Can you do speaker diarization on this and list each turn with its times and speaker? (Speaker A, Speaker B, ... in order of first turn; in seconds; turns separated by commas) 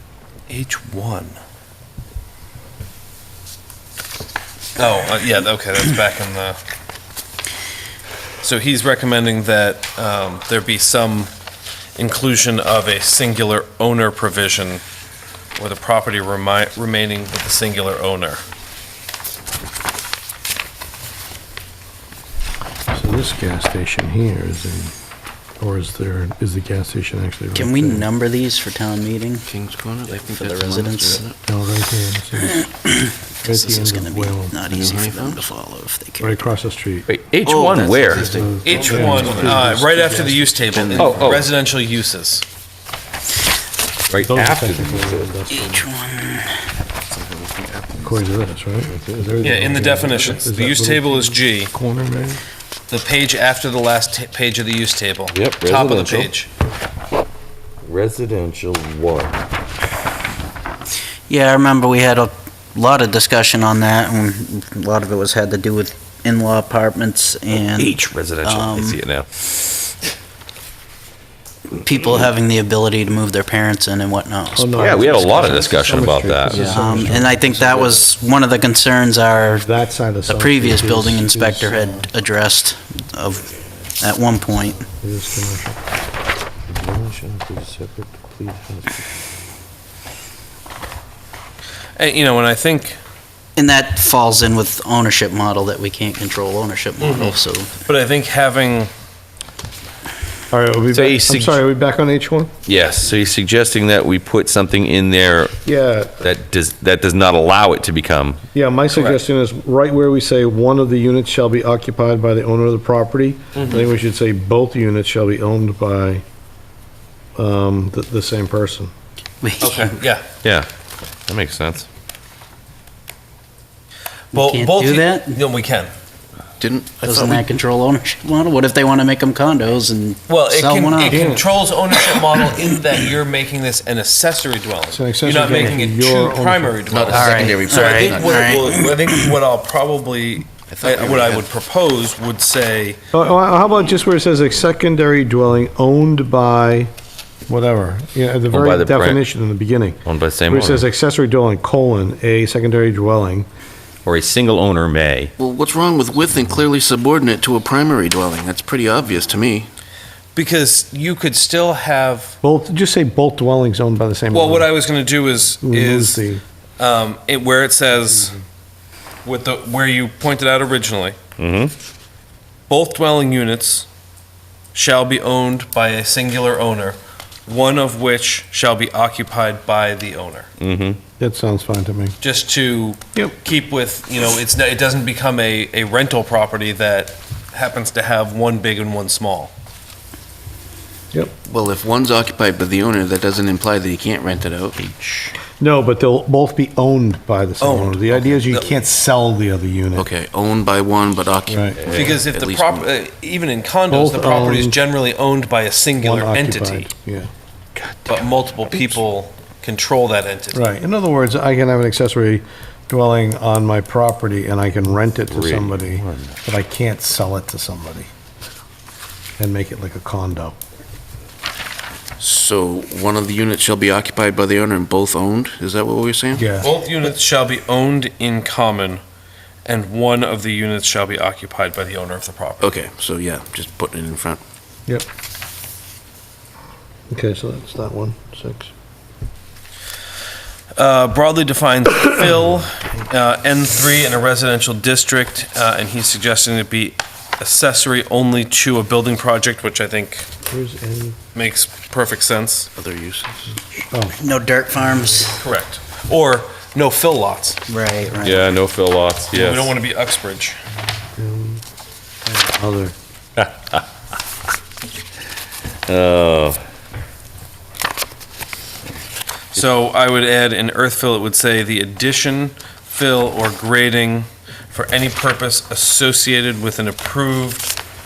Speaker A: 0.5-1.4, Speaker A: 4.8-6.6, Speaker A: 8.4-11.3, Speaker A: 12.0-14.8, Speaker A: 15.6-18.4, Speaker B: 22.9-24.9, Speaker B: 25.6-28.1, Speaker C: 27.6-29.5, Speaker D: 29.5-31.4, Speaker C: 30.1-31.2, Speaker B: 31.5-32.7, Speaker C: 32.4-36.4, Speaker B: 33.5-34.6, Speaker D: 34.6-35.5, Speaker B: 36.2-37.1, Speaker E: 37.1-38.3, Speaker D: 37.4-39.8, Speaker B: 38.1-40.6, Speaker A: 38.6-42.4, Speaker D: 40.7-41.5, Speaker E: 41.0-41.5, Speaker E: 44.1-45.3, Speaker B: 44.2-45.8, Speaker C: 45.5-46.6, Speaker D: 47.1-48.3, Speaker B: 48.0-52.4, Speaker A: 49.4-51.7, Speaker A: 52.9-56.5, Speaker E: 55.3-56.3, Speaker E: 57.8-59.4, Speaker C: 61.3-69.0, Speaker E: 67.5-69.3, Speaker C: 71.8-75.1, Speaker B: 74.5-78.0, Speaker E: 74.8-76.7, Speaker D: 76.5-77.2, Speaker C: 76.6-79.7, Speaker B: 79.5-82.1, Speaker C: 80.3-84.9, Speaker B: 85.0-85.8, Speaker E: 86.7-89.0, Speaker A: 92.0-93.0, Speaker C: 93.6-97.7, Speaker A: 97.0-98.9, Speaker B: 100.5-102.5, Speaker A: 100.9-101.6, Speaker E: 102.7-105.6, Speaker B: 105.6-106.3, Speaker E: 106.2-108.4, Speaker B: 108.5-116.2, Speaker A: 108.9-109.2, Speaker A: 113.5-113.9, Speaker B: 117.4-118.9, Speaker C: 119.4-120.0, Speaker A: 119.6-120.3, Speaker E: 121.3-121.9, Speaker C: 124.3-125.4, Speaker A: 124.3-125.9, Speaker D: 126.6-127.5, Speaker C: 127.0-131.2, Speaker A: 130.3-143.0, Speaker B: 131.1-131.5, Speaker B: 134.9-136.8, Speaker D: 136.9-138.8, Speaker C: 137.1-139.2, Speaker D: 140.7-141.5, Speaker B: 143.1-146.9, Speaker B: 147.5-153.5, Speaker E: 148.5-149.2, Speaker E: 150.1-150.8, Speaker E: 154.1-155.3, Speaker D: 155.4-159.7, Speaker A: 160.3-162.4, Speaker B: 162.4-164.7, Speaker A: 164.3-166.3, Speaker B: 165.6-166.4, Speaker A: 166.8-168.4, Speaker A: 169.2-171.2, Speaker E: 171.4-171.7, Speaker A: 172.7-173.9, Speaker A: 174.7-180.5, Speaker E: 180.6-181.0, Speaker B: 181.2-182.2, Speaker A: 182.2-189.5, Speaker D: 191.5-194.8, Speaker E: 194.8-195.3, Speaker B: 195.6-200.1, Speaker A: 197.6-198.8, Speaker D: 200.0-202.9, Speaker B: 201.5-201.8, Speaker E: 201.8-202.1, Speaker A: 201.9-206.9, Speaker B: 203.9-204.8, Speaker B: 206.0-207.3, Speaker E: 207.8-208.2, Speaker A: 208.1-210.8, Speaker B: 210.5-218.1, Speaker E: 215.3-216.4, Speaker B: 219.4-220.6, Speaker D: 222.2-226.4, Speaker B: 226.3-226.7, Speaker A: 226.6-229.0, Speaker A: 229.7-232.7, Speaker D: 232.6-234.4, Speaker B: 237.1-238.7, Speaker A: 240.8-250.3, Speaker B: 250.5-251.2, Speaker A: 251.3-252.7, Speaker D: 252.8-253.6, Speaker B: 253.8-254.2, Speaker C: 254.2-255.4, Speaker A: 255.2-257.6, Speaker C: 257.7-258.4, Speaker E: 258.2-259.7, Speaker A: 259.3-260.6, Speaker B: 261.2-261.6, Speaker B: 262.3-262.9, Speaker E: 263.4-263.8, Speaker E: 265.9-266.6, Speaker A: 269.5-277.7